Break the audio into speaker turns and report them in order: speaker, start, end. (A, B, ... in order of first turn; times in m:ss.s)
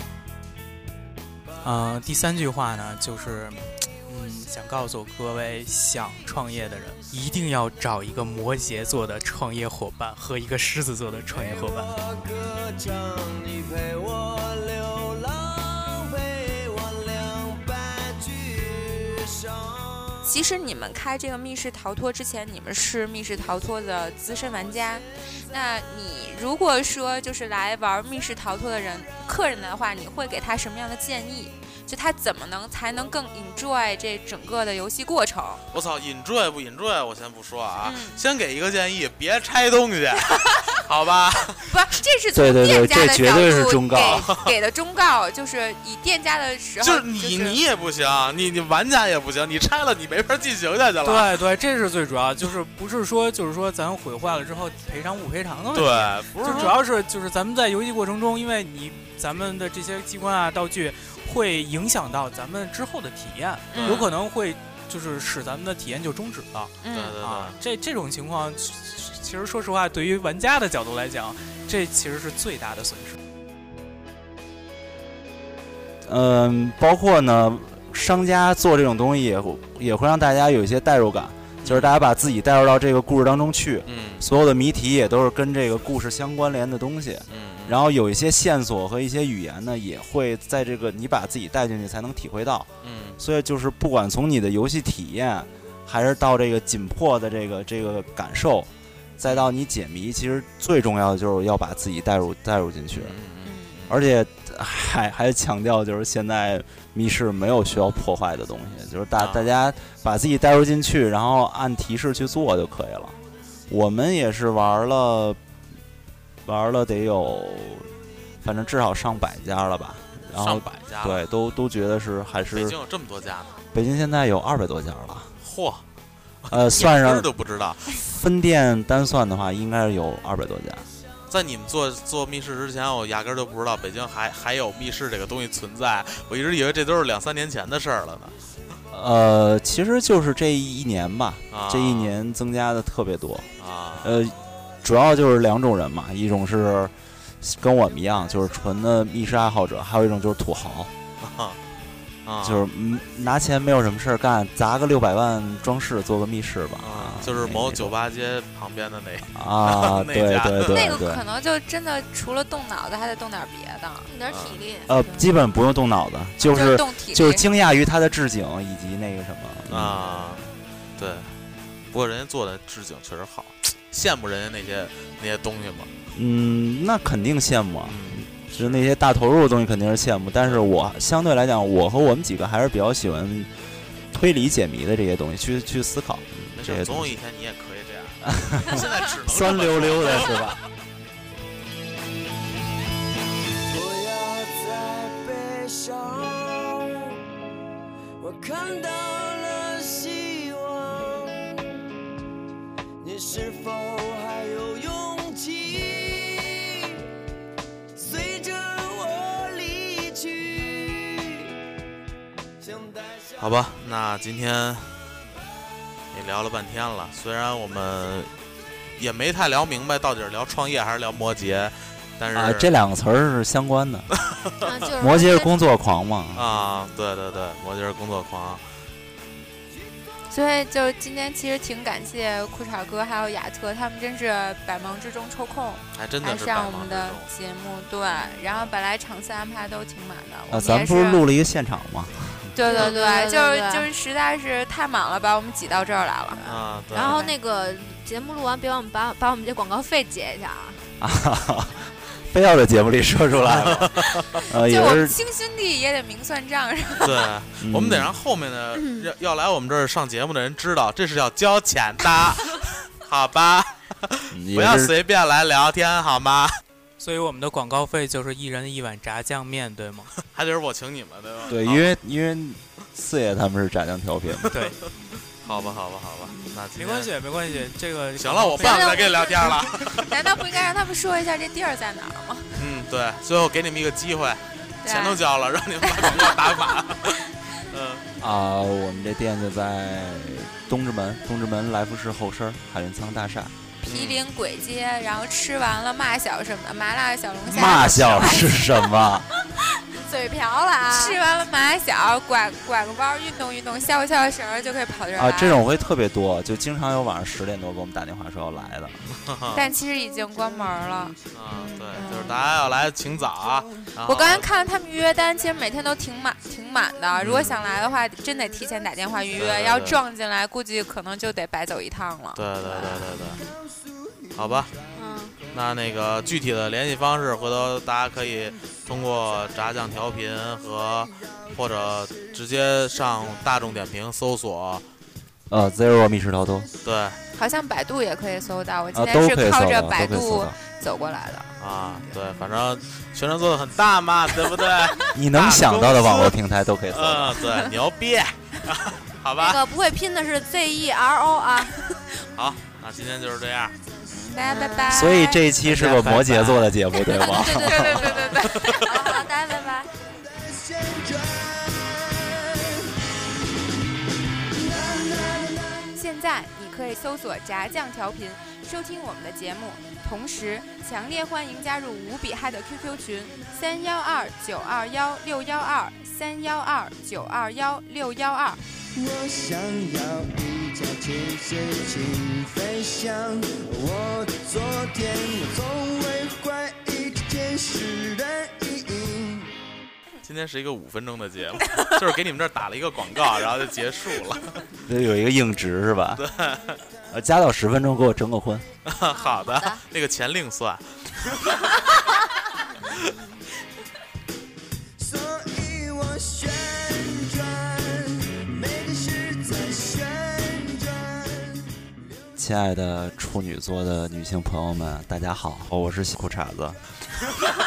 0:01.6-0:11.9 A
0:11.4-0:20.3 B
0:20.2-0:35.6 C
0:35.7-0:41.8 D
0:37.8-0:38.2 C
0:41.6-0:47.6 C
0:42.3-0:44.3 E
0:44.0-0:44.5 D
0:46.8-0:51.4 D
0:51.0-1:13.2 A
0:55.7-0:56.8 D
0:56.4-0:56.8 C
1:03.7-1:04.1 C
1:03.7-1:04.1 D
1:06.8-1:07.2 C
1:06.9-1:07.6 D
1:16.0-1:43.2 E
1:21.6-1:21.9 D
1:23.8-1:24.2 D
1:27.3-1:27.8 D
1:32.8-1:33.2 D
1:39.2-1:39.5 D
1:43.0-1:44.0 D
1:43.4-1:43.8 C
1:43.9-1:53.1 E
1:49.2-1:49.5 D
1:53.7-1:55.4 E
1:56.4-1:57.9 E
1:58.4-2:02.8 E
2:00.3-2:01.2 D
2:02.5-2:03.6 D
2:03.7-2:05.3 E
2:05.4-2:05.8 D
2:06.4-2:08.0 D
2:06.5-2:07.3 E
2:08.0-2:10.9 E
2:11.3-2:18.3 D
2:18.9-2:23.5 E
2:21.5-2:22.1 D
2:23.6-2:24.2 D
2:24.0-2:30.9 E
2:31.2-2:31.6 D
2:32.2-2:32.6 D
2:32.4-2:37.9 E
2:36.8-2:40.8 D
2:39.3-2:41.2 E
2:40.7-2:44.1 C
2:44.0-2:44.9 F
2:44.3-2:44.6 D
2:44.9-2:50.0 E
2:45.0-2:45.2 C
2:46.4-2:47.4 C
2:49.7-2:50.4 D
2:51.0-2:51.3 D
2:51.9-2:55.9 D
2:56.1-3:03.5 E
2:57.8-2:58.9 D
3:04.1-3:07.1 E
3:06.5-3:10.5 D
3:08.3-3:10.6 E
3:13.6-3:17.2 B
3:18.2-3:21.6 B
3:23.0-3:27.0 B
3:27.9-3:31.5 B
3:32.6-3:33.6 B
3:33.4-3:34.9 D
3:36.1-3:38.3 D
3:39.0-3:42.7 D
3:42.3-3:44.1 E
3:44.2-3:44.7 D
3:44.6-3:45.5 F
3:45.0-3:46.5 E
3:46.3-3:48.6 D
3:50.3-4:01.2 C
3:55.9-3:57.3 D
4:00.5-4:02.4 E
4:02.5-4:07.4 C
4:02.6-4:03.9 F
4:02.7-4:03.0 D
4:06.4-4:10.8 F
4:06.4-4:07.3 D
4:11.0-4:15.2 E
4:13.4-4:14.3 D
4:14.5-4:17.3 C
4:17.0-4:26.6 D
4:17.6-4:18.1 E
4:18.7-4:19.1 F
4:24.3-4:24.9 E
4:27.0-4:30.1 A
4:30.2-4:31.9 D
4:31.5-4:34.5 E
4:34.5-4:34.8 A
4:35.4-4:37.1 D
4:36.8-4:38.9 A
4:38.2-4:40.3 D
4:38.6-4:42.6 C
4:38.8-4:39.6 F
4:42.6-4:48.0 D
4:44.8-4:45.3 C
4:45.8-4:46.8 C
4:48.2-4:53.5 E
4:53.8-4:59.0 C
4:53.8-4:54.2 D
4:57.4-4:58.4 D
4:57.5-4:59.3 E
4:59.5-5:01.2 F
5:00.9-5:05.6 C
5:05.1-5:09.0 E
5:09.2-5:09.7 D
5:09.5-5:12.4 C
5:11.3-5:14.5 D
5:14.0-5:23.2 C
5:17.2-5:17.6 D
5:19.3-5:20.0 D
5:22.4-5:23.4 D
5:23.4-5:24.8 B
5:24.3-5:24.7 D
5:24.9-5:25.4 F
5:25.5-5:34.8 D
5:35.5-5:36.7 E
5:36.8-5:37.2 D
5:37.3-5:41.5 C
5:38.9-5:40.6 E
5:41.6-5:46.4 D
5:45.1-5:47.5 E
5:46.9-5:49.6 D
5:49.4-5:51.8 F
5:52.3-5:53.8 D
5:54.1-5:55.4 C
5:54.4-5:55.3 F
5:54.9-5:58.1 E
5:55.6-5:58.9 D
5:57.0-5:59.2 C
5:57.4-5:59.9 F
5:59.9-6:03.0 B
6:04.5-6:06.0 B
6:06.0-6:18.6 C
6:18.9-6:29.5 B
6:30.2-6:34.6 D
6:34.8-6:36.2 E
6:36.2-6:36.8 D
6:37.1-6:38.6 E
6:38.8-6:41.8 D
6:39.1-6:39.8 F
6:45.0-6:51.8 B
6:52.4-6:56.8 E